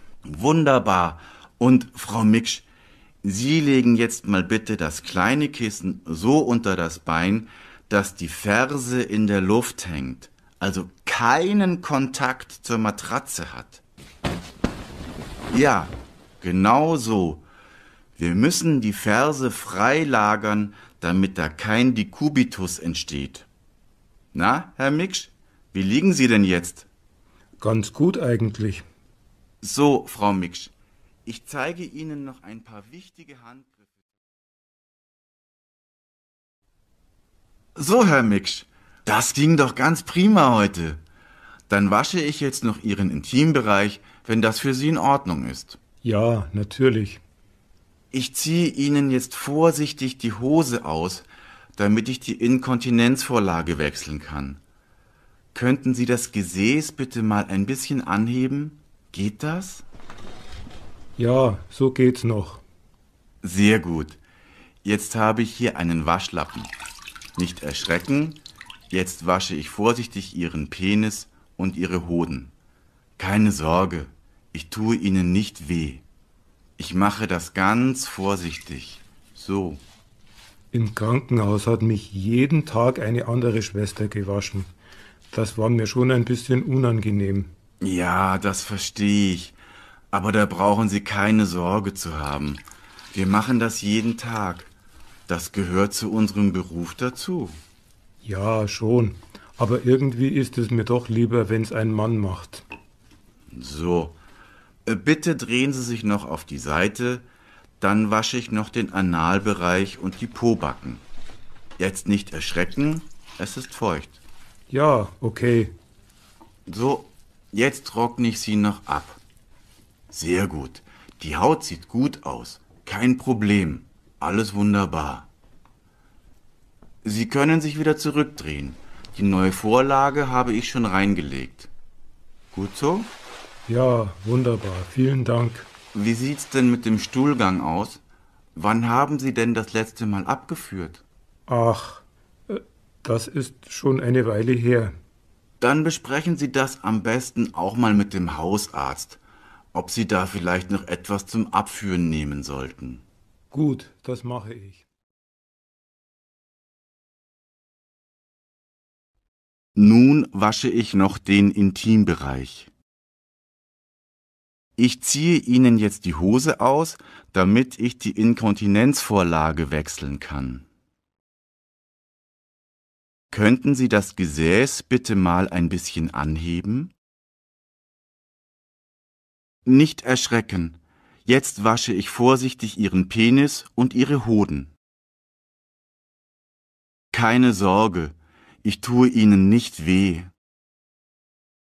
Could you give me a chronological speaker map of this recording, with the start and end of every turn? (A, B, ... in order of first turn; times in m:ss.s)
0:00.3-0:02.6 A
0:03.2-0:13.8 A
0:15.5-0:17.4 A
0:18.2-0:23.5 A
0:24.3-0:26.9 A
0:27.6-0:28.8 B
0:29.6-0:30.7 A
0:31.3-0:33.8 A
0:37.8-0:41.0 A
0:41.7-0:45.8 A
0:46.0-0:47.2 B
0:48.1-0:54.6 A
0:55.5-0:59.8 A
1:01.2-1:02.6 B
1:03.4-1:04.2 A
1:04.8-1:06.7 A
1:07.4-1:08.4 A
1:08.9-1:12.5 A
1:13.2-1:16.0 A
1:16.8-1:19.8 A
1:20.7-1:24.7 B
1:25.3-1:27.5 B
1:27.8-1:29.6 A
1:30.1-1:32.6 A
1:33.1-1:34.7 A
1:35.3-1:37.6 A
1:38.2-1:42.6 B
1:43.5-1:44.2 A
1:44.9-1:47.2 A
1:47.8-1:51.0 A
1:51.8-1:54.2 A
1:54.7-1:55.7 B
1:56.7-1:59.2 A
2:00.1-2:05.3 A
2:07.0-2:11.7 A
2:12.5-2:13.1 A
2:13.7-2:15.7 B
2:15.9-2:18.0 A
2:18.6-2:21.0 A
2:21.5-2:25.0 B
2:25.6-2:29.2 A
2:29.7-2:33.0 A
2:33.5-2:34.8 B
2:39.8-2:42.7 A
2:44.8-2:50.6 A
2:53.3-2:56.9 A
2:59.7-3:04.7 A
3:07.1-3:10.3 A